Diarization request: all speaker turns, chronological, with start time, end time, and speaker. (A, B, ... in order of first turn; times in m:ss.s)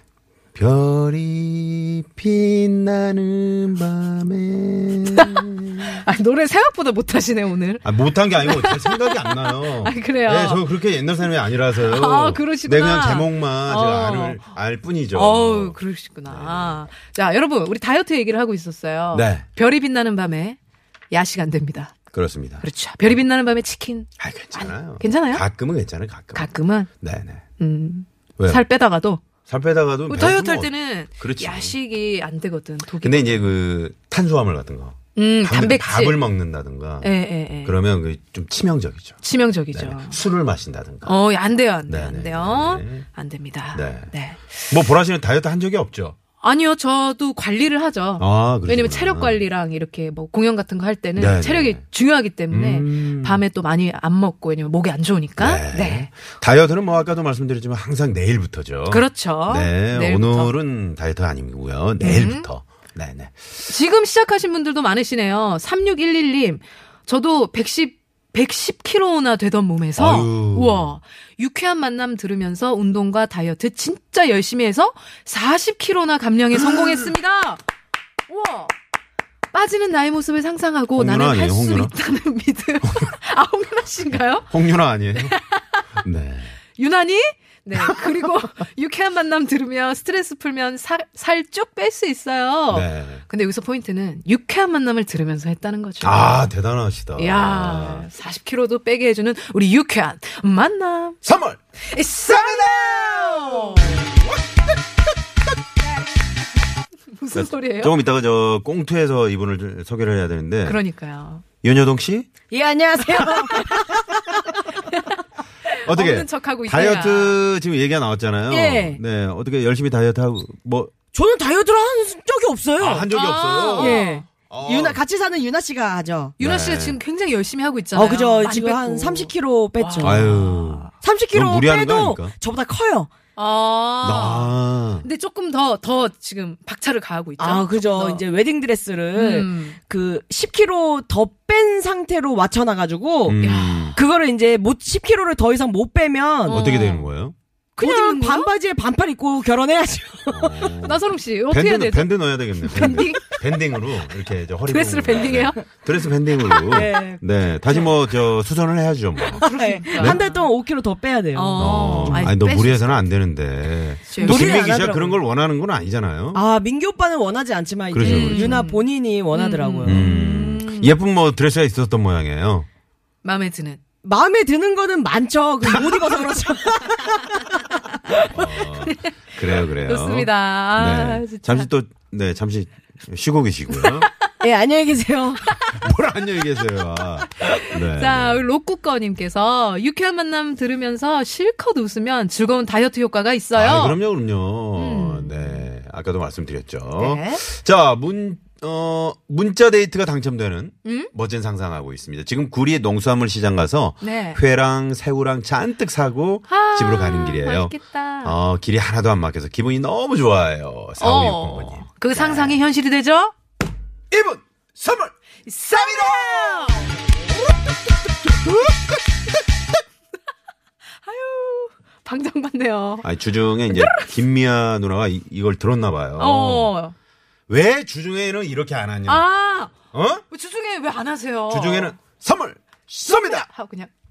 0:00.5-0:06.0 A
0:05.1-0:07.8 B
0:07.8-0:15.8 A
0:08.4-0:10.6 B
0:11.8-0:14.5 B
0:15.1-0:20.6 B
0:16.3-0:16.8 A
0:19.1-0:19.4 A
0:21.1-0:21.9 B
0:22.1-0:23.1 A
0:22.6-0:25.4 B
0:24.2-0:27.4 A
0:26.3-0:26.9 B
0:27.6-0:29.2 B
0:29.5-0:31.8 A
0:30.1-0:33.5 B
0:33.0-0:37.1 A
0:35.1-0:36.2 B
0:37.0-0:37.8 B
0:37.6-0:39.2 A
0:39.2-0:40.2 B
0:39.7-0:41.2 A
0:41.0-0:44.6 B
0:41.9-0:43.0 A
0:43.7-0:44.1 A
0:44.7-0:46.2 A
0:46.4-0:56.1 B
0:48.2-0:49.4 A
0:51.2-0:51.8 A
0:52.5-0:53.4 A
0:55.4-1:03.4 A
0:58.9-1:00.5 B
1:02.0-1:02.5 B
1:03.7-1:17.6 B
1:10.0-1:10.9 A
1:18.3-1:18.7 B
1:19.5-1:24.5 B
1:21.0-1:21.9 A
1:22.8-1:23.1 A
1:24.5-1:25.4 A
1:25.2-1:25.8 B
1:26.0-1:26.5 A
1:26.8-1:36.5 B
1:27.8-1:28.1 A
1:32.7-1:33.2 A
1:36.0-1:38.1 A
1:37.2-1:41.2 B
1:41.2-1:41.6 A
1:41.9-1:44.0 B
1:42.2-1:45.1 A
1:47.1-1:48.0 B
1:47.3-1:50.8 A
1:50.6-1:51.4 B
1:51.6-1:52.3 A
1:52.5-1:54.6 C
1:53.2-1:53.6 A
1:55.7-1:57.4 B
1:55.8-2:00.9 A
1:58.5-1:59.0 C
2:01.1-2:03.1 C
2:02.8-2:05.0 A
2:03.1-2:04.2 B
2:03.8-2:06.3 C
2:06.4-2:10.9 B
2:06.4-2:07.0 A
2:07.9-2:10.2 C
2:10.0-2:12.3 A
2:11.0-2:13.1 C
2:13.4-2:18.2 B
2:14.0-2:15.0 A
2:17.4-2:23.4 C
2:19.1-2:19.8 B
2:23.2-2:24.0 A
2:23.4-2:23.9 B
2:23.9-2:26.6 C
2:26.5-2:27.3 A
2:26.5-2:27.1 B
2:27.8-2:28.5 B
2:27.8-2:30.6 C
2:30.3-2:40.2 A
2:30.8-2:33.4 B
2:34.7-2:35.6 B
2:36.6-2:37.2 C
2:39.3-2:40.3 B
2:39.5-2:42.2 C
2:41.3-2:42.9 B
2:41.6-2:46.4 A
2:44.1-2:44.5 B
2:44.2-2:45.2 C
2:46.3-2:50.1 C
2:47.9-2:48.6 A
2:48.0-2:50.9 B
2:49.8-2:52.7 A
2:53.2-2:53.8 B
2:54.0-2:57.3 C
2:58.1-3:04.1 A
2:58.8-2:59.1 B
2:59.8-3:01.7 B
3:04.4-3:05.5 C
3:05.5-3:08.4 A
3:07.4-3:14.0 B
3:13.5-3:32.6 A
3:14.8-3:15.6 B
3:17.0-3:17.4 B
3:20.8-3:21.1 B
3:24.0-3:24.4 B
3:26.5-3:28.4 B
3:31.0-3:33.3 B
3:34.1-3:35.1 A
3:35.4-3:37.0 B
3:35.7-3:39.4 A
3:41.0-3:43.1 B
3:43.0-3:46.7 A
3:43.7-3:44.1 B
3:46.2-3:46.9 B
3:47.5-3:49.3 A
3:49.1-3:49.7 B
3:49.9-3:50.2 A
3:50.3-3:52.0 B
3:51.5-3:53.5 A
3:53.1-3:53.9 B